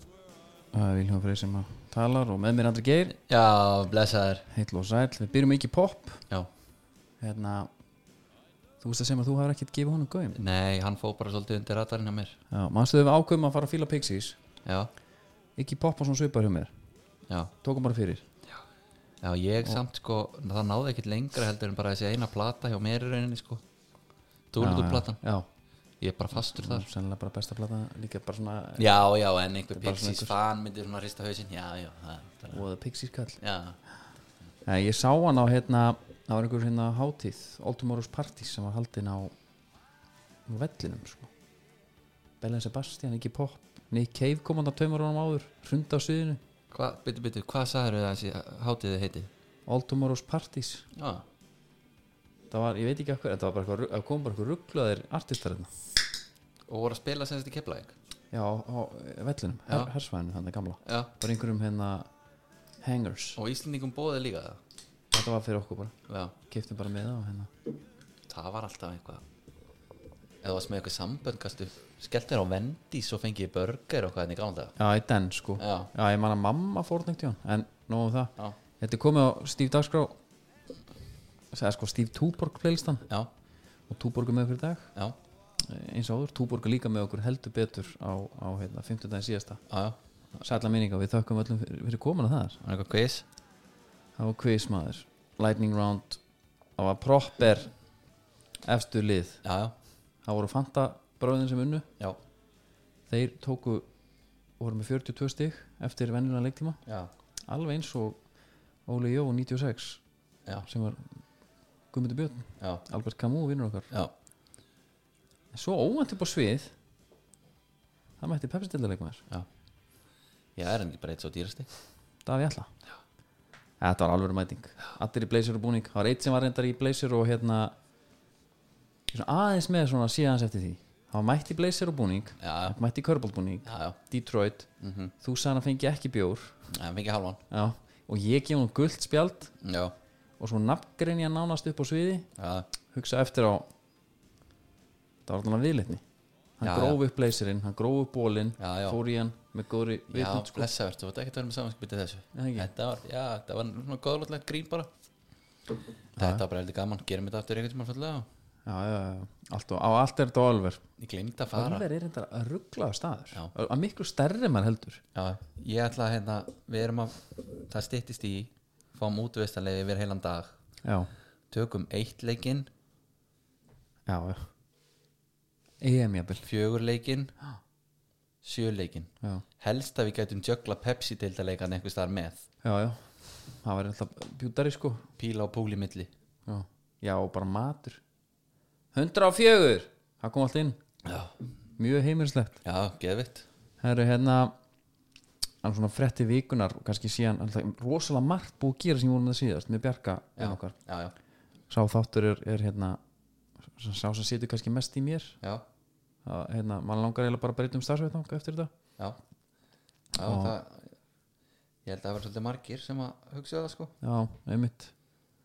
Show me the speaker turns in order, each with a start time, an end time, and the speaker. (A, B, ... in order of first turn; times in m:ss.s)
0:00.7-0:03.1 A
0:03.1-0:04.5 B
0:04.5-0:06.2 A
0:07.2-0:07.7 A
0:08.8-0:10.4 A
0:10.3-0:12.4 B
0:12.5-0:14.4 A
0:14.6-0:14.9 B
0:15.6-0:16.7 A
0:17.6-0:18.2 A
0:19.2-0:23.6 B
0:24.5-0:25.2 B
0:24.6-0:25.5 A
0:26.0-0:26.9 B
0:26.3-0:28.9 A
0:28.8-0:32.6 B
0:29.7-0:30.3 A
0:32.5-0:33.4 A
0:33.4-0:33.8 B
0:34.6-0:39.3 A
0:40.5-0:41.3 A
0:42.4-0:46.4 A
0:46.7-0:49.3 B
0:49.7-0:50.9 A
0:50.9-0:51.2 B
0:52.5-0:55.7 A
0:56.7-0:57.9 B
0:58.3-1:02.1 A
1:00.8-1:01.1 B
1:02.8-1:03.4 A
1:03.4-1:04.6 B
1:05.1-1:05.9 A
1:06.1-1:06.3 B
1:06.5-1:07.5 A
1:08.3-1:09.2 B
1:10.4-1:14.8 B
1:14.8-1:20.2 A
1:15.6-1:15.9 B
1:21.5-1:23.0 A
1:23.9-1:24.9 A
1:25.6-1:29.6 A
1:29.7-1:30.0 B
1:30.4-1:32.6 A
1:32.6-1:33.3 B
1:34.2-1:36.2 A
1:36.8-1:37.7 A
1:38.6-1:39.4 A
1:39.4-1:39.7 B
1:40.2-1:41.9 A
1:43.1-1:43.9 A
1:44.6-1:46.8 A
1:46.9-1:47.1 B
1:47.5-1:48.2 A
1:48.9-1:50.0 A
1:50.6-1:51.1 A
1:51.9-1:53.9 A
1:55.5-1:56.7 A
1:58.2-1:59.2 A
2:00.6-2:01.7 B
2:02.2-2:02.7 A
2:03.8-2:07.7 A
2:09.1-2:14.7 A
2:12.4-2:12.8 B
2:13.6-2:14.0 B
2:14.8-2:15.1 B
2:15.2-2:16.6 A
2:16.7-2:17.4 B
2:17.5-2:19.5 A
2:19.6-2:19.9 B
2:20.4-2:22.3 A
2:22.4-2:22.7 B
2:22.9-2:23.7 A
2:25.2-2:26.0 A
2:26.6-2:30.7 A
2:26.6-2:27.0 B
2:28.6-2:29.0 B
2:30.1-2:34.9 B
2:32.3-2:32.7 A
2:36.2-2:38.3 B
2:38.6-2:40.8 A
2:41.0-2:41.8 B
2:41.5-2:45.0 A
2:45.1-2:50.6 B
2:50.8-2:51.1 A
2:51.5-2:52.7 B
2:54.1-2:54.5 A
2:55.8-2:56.4 A
2:56.4-2:57.3 B
2:58.4-3:02.4 B
3:02.6-3:05.0 A
3:05.2-3:06.1 B
3:06.4-3:08.0 A
3:08.9-3:10.8 A
3:11.0-3:11.3 B
3:11.8-3:12.6 A
3:12.6-3:13.4 B
3:13.8-3:14.6 A
3:15.6-3:20.8 A
3:20.4-3:21.1 B
3:21.7-3:23.0 A
3:23.7-3:25.4 A
3:26.2-3:28.7 A
3:30.1-3:30.9 B
3:30.2-3:30.6 A
3:31.9-3:33.9 B
3:34.0-3:34.9 A